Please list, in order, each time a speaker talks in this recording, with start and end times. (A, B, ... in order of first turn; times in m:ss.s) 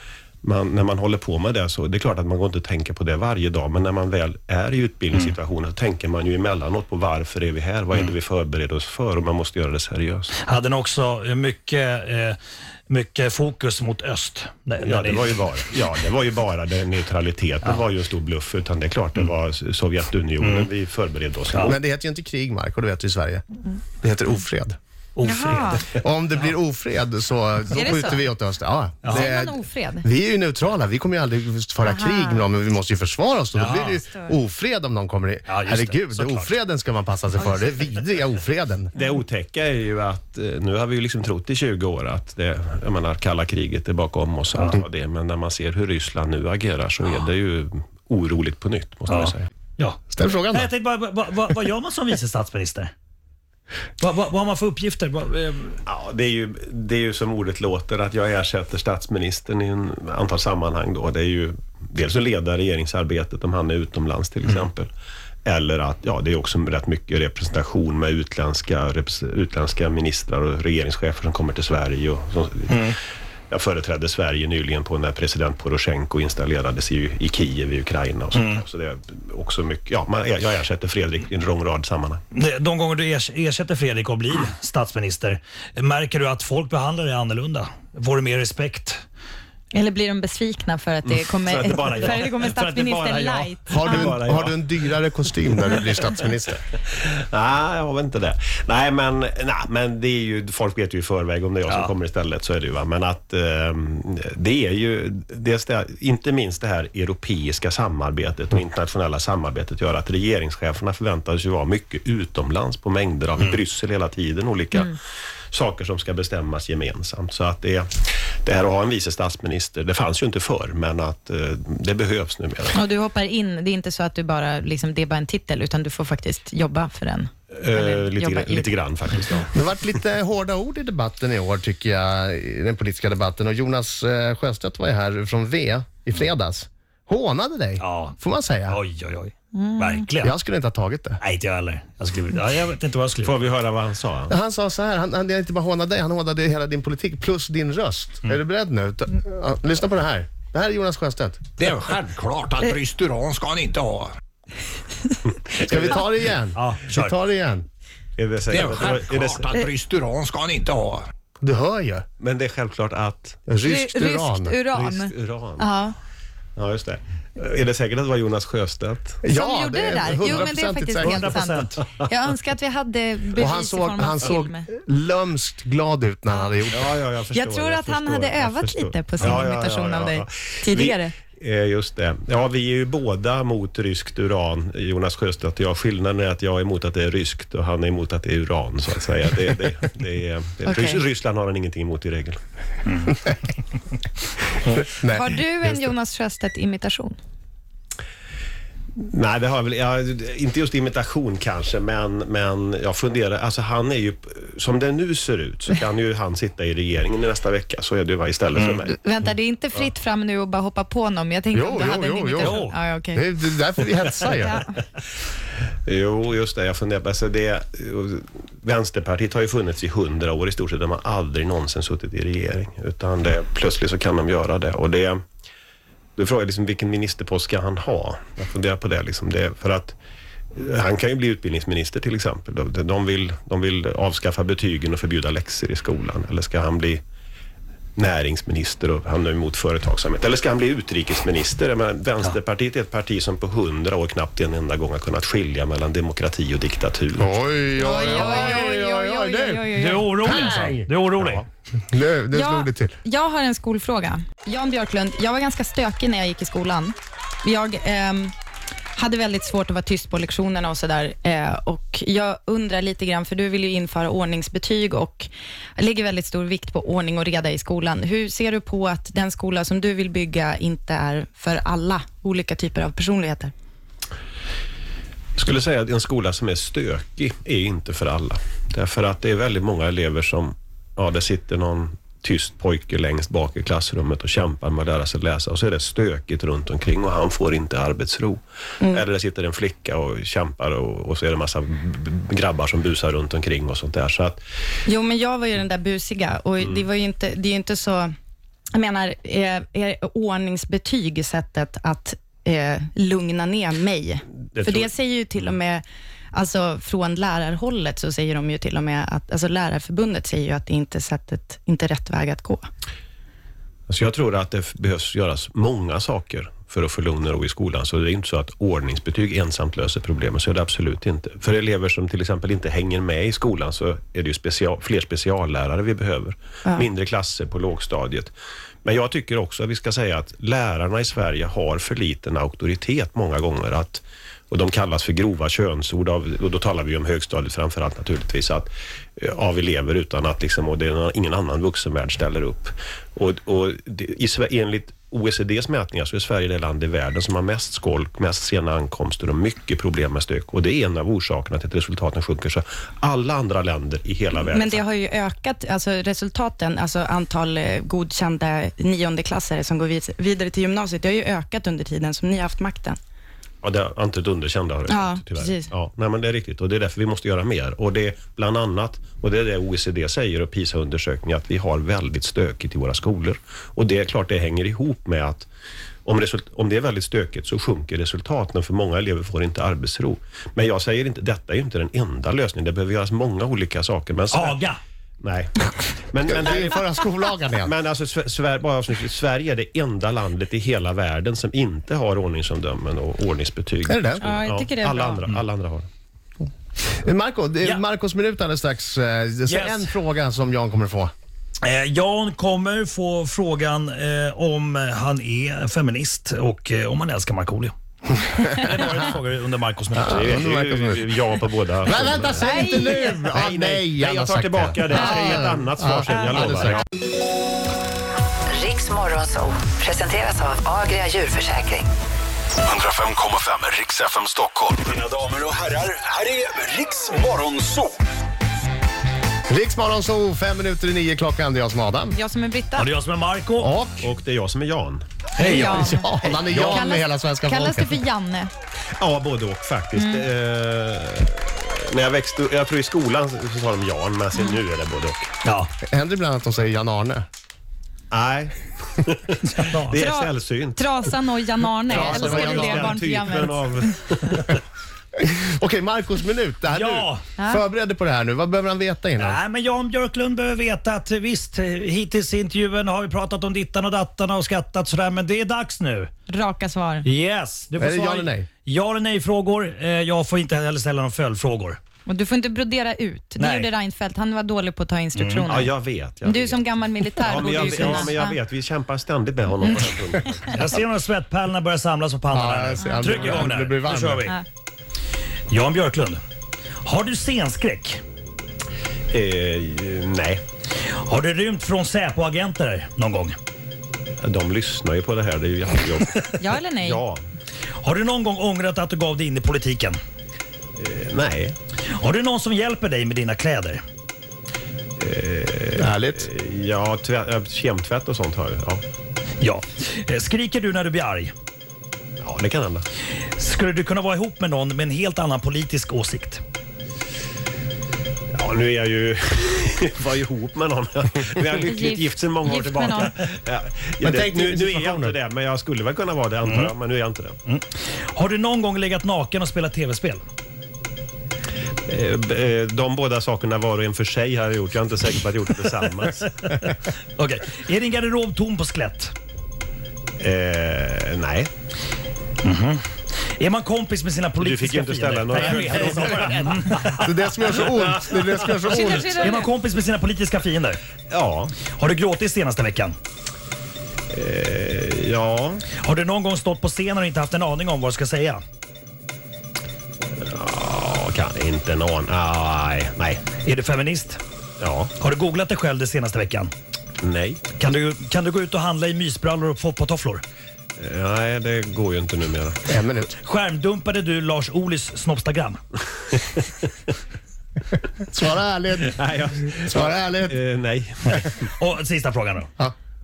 0:00.4-0:10.3 A
0:10.4-0:12.4 B
0:12.9-0:15.4 B
0:14.8-0:21.8 A
0:20.4-0:20.7 B
0:21.6-0:23.4 C
0:24.0-0:24.8 C
0:25.2-0:25.8 B
0:25.2-0:25.8 D
0:25.9-0:38.9 C
0:27.7-0:28.2 D
0:29.0-0:29.3 B
0:29.1-0:30.1 D
0:31.8-0:32.4 D
0:33.5-0:34.0 B
0:33.9-0:34.4 D
0:35.5-0:36.5 B
0:38.9-0:49.5 A
0:49.1-0:52.9 B
0:50.1-0:50.7 C
0:54.0-0:55.8 B
0:55.8-1:04.9 A
1:05.4-1:12.9 A
1:12.7-1:13.0 B
1:13.5-1:22.2 A
1:18.3-1:18.6 B
1:22.3-1:29.0 B
1:29.7-1:34.2 D
1:31.0-1:34.6 A
1:33.7-1:36.6 C
1:36.8-1:55.0 A
1:41.7-1:41.9 B
1:55.5-2:02.8 A
2:02.7-2:08.7 D
2:07.5-2:09.5 A
2:09.5-2:18.8 C
2:17.8-2:18.2 B
2:18.7-2:20.3 B
2:20.2-2:21.2 C
2:21.2-2:23.4 B
2:23.2-2:24.3 A
2:24.3-2:31.4 C
2:31.6-2:34.1 E
2:35.6-2:37.6 C
2:35.6-2:35.9 A
2:36.5-2:37.1 B
2:38.2-2:39.5 A
2:38.5-2:41.1 E
2:41.4-2:42.0 C
2:42.2-2:43.5 A
2:43.5-2:44.5 C
2:43.6-2:46.0 D
2:44.7-2:45.7 A
2:46.6-2:49.2 A
2:49.2-2:51.4 C
2:49.3-2:54.7 D
2:51.0-2:51.8 B
2:53.4-2:56.9 C
2:56.3-2:56.6 D
2:56.7-3:12.4 A
2:57.3-3:01.1 D
3:10.6-3:11.0 D
3:12.8-3:13.3 B
3:14.9-3:15.8 C
3:15.1-3:17.2 D
3:19.0-3:28.9 A
3:28.7-3:33.2 D
3:31.5-3:32.6 C
3:32.4-3:32.8 B
3:33.1-3:34.6 C
3:34.4-3:34.7 D
3:35.8-3:45.2 A
3:46.2-3:50.0 A
3:50.6-3:57.0 A
3:58.0-4:07.3 A
4:07.2-4:11.3 C
4:07.8-4:10.7 D
4:09.7-4:11.4 B
4:11.9-4:13.0 C
4:12.3-4:18.3 D
4:19.0-4:33.5 D
4:35.4-4:54.4 A
4:54.8-4:58.1 D
4:56.6-4:56.8 A
4:58.7-5:12.6 D
5:04.5-5:05.5 A
5:13.9-5:28.3 A
5:28.8-5:54.8 A
5:54.4-6:03.0 D
6:03.6-6:15.5 A
6:04.9-6:05.7 D
6:16.0-6:24.6 A
6:24.3-6:24.8 B
6:25.2-6:26.8 A
6:26.3-6:27.7 C
6:27.6-6:35.9 A
6:33.9-6:34.3 C
6:34.2-6:35.2 D
6:37.0-6:41.1 C
6:39.5-6:39.9 B
6:41.6-6:50.3 B
6:49.9-6:51.1 C
6:50.1-6:52.7 A
6:51.8-6:56.8 C
6:52.4-6:53.3 D
6:53.3-6:56.8 A
6:54.9-6:55.4 D
6:58.5-7:01.9 F
7:02.6-7:07.9 G
7:09.5-7:12.2 C
7:12.1-7:12.9 D
7:12.8-7:13.7 B
7:13.6-7:14.1 C
7:14.0-7:15.8 A
7:15.4-7:15.9 B
7:15.4-7:18.0 C
7:15.4-7:18.5 D
7:16.4-7:16.8 A
7:19.0-7:25.3 A
7:19.9-7:20.3 D
7:24.3-7:24.6 D
7:25.4-7:25.7 B
7:25.9-7:27.2 C
7:28.1-7:30.9 A
7:29.5-7:30.0 B
7:29.9-7:33.9 D
7:31.8-7:34.6 A
7:31.9-7:33.0 C
7:35.2-7:39.4 C
7:36.7-7:37.2 B
7:37.4-7:37.6 D
7:39.2-7:46.1 B
7:46.3-7:47.1 D
7:47.0-7:51.8 B
7:47.8-7:48.5 C
7:52.0-7:58.4 D
7:53.4-7:53.7 B
7:55.1-7:55.5 B
7:55.5-8:00.4 A
7:57.4-7:58.1 B
7:59.6-8:00.5 D
8:00.5-8:04.4 B
8:02.3-8:04.3 C
8:02.8-8:03.2 D
8:05.5-8:06.2 B
8:06.8-8:08.0 B
8:09.1-8:10.4 A
8:10.9-8:13.4 B
8:14.2-8:17.3 A
8:16.4-8:17.0 D
8:17.8-8:20.0 B
8:20.8-8:21.6 A
8:21.9-8:23.8 B
8:25.0-8:28.8 A
8:25.8-8:26.3 C
8:29.4-8:31.3 B
8:32.2-8:32.8 A
8:33.4-8:36.4 B
8:38.3-8:47.4 A
8:41.5-8:43.2 D
8:44.0-8:45.1 C
8:46.4-8:46.7 B
8:47.4-8:50.2 B
8:51.9-8:56.5 A
8:56.5-8:59.1 B
9:00.2-9:01.5 A
9:02.4-9:02.8 B
9:03.4-9:07.3 B
9:04.4-9:06.7 A
9:07.0-9:09.2 C
9:07.6-9:08.6 A
9:08.6-9:09.5 D
9:08.7-9:10.8 B
9:11.1-9:11.6 A
9:11.6-9:13.0 B
9:14.1-9:15.6 A
9:15.8-9:18.4 B
9:20.2-9:23.2 A
9:23.4-9:24.2 B
9:24.6-9:24.9 A
9:25.0-9:26.5 B
9:27.0-9:27.4 A
9:27.5-9:30.2 B
9:30.8-9:32.7 A
9:32.7-9:33.1 C
9:33.2-9:35.6 B
9:38.1-9:39.0 C
9:38.8-9:41.5 A
9:39.5-9:40.4 C
9:41.6-9:42.5 B